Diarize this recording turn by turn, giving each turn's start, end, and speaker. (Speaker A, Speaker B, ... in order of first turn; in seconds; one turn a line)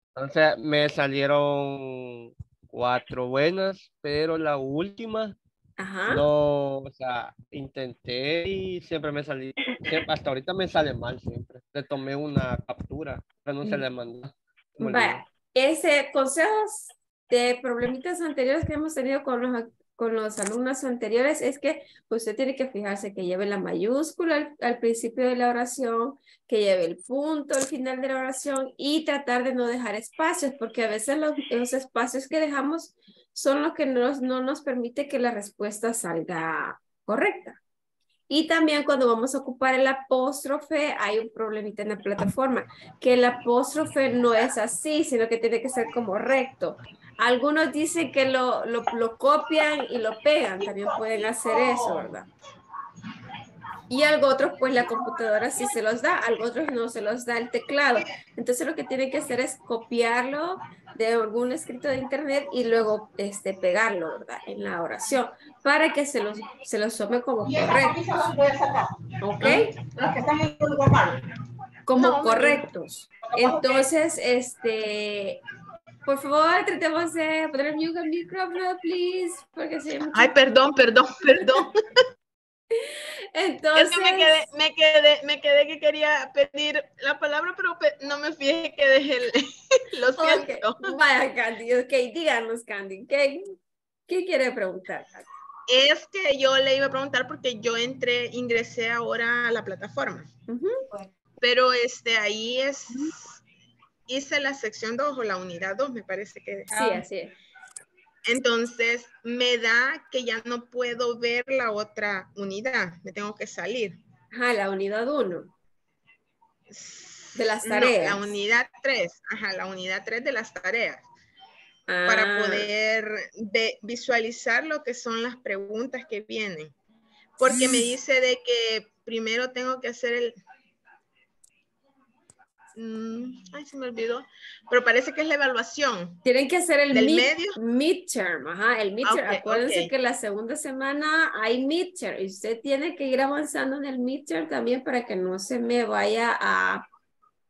Speaker A: 0.1-5.3
Speaker B: 5.8-6.2
Speaker A: 6.1-15.2
Speaker B: 14.8-37.6
Speaker B: 38.3-52.3
Speaker B: 53.9-68.0
Speaker C: 68.2-68.8
Speaker B: 69.2-69.8
Speaker C: 69.4-71.1
Speaker B: 71.8-75.4
Speaker C: 72.0-72.6
Speaker B: 76.0-80.4
Speaker C: 80.1-81.8
Speaker B: 82.7-84.5
Speaker C: 83.8-90.9
Speaker B: 90.2-93.4
Speaker B: 94.1-95.3
Speaker C: 95.7-100.3
Speaker B: 100.5-100.8
Speaker C: 101.4-103.3
Speaker C: 104.1-106.7
Speaker B: 106.7-107.3
Speaker C: 108.3-114.0
Speaker B: 114.3-115.5
Speaker C: 116.7-121.0
Speaker B: 117.3-118.3
Speaker B: 121.9-122.7
Speaker C: 122.0-126.7
Speaker C: 127.4-130.3
Speaker C: 132.8-136.2
Speaker B: 136.2-146.8
Speaker C: 136.9-137.6
Speaker C: 139.0-139.9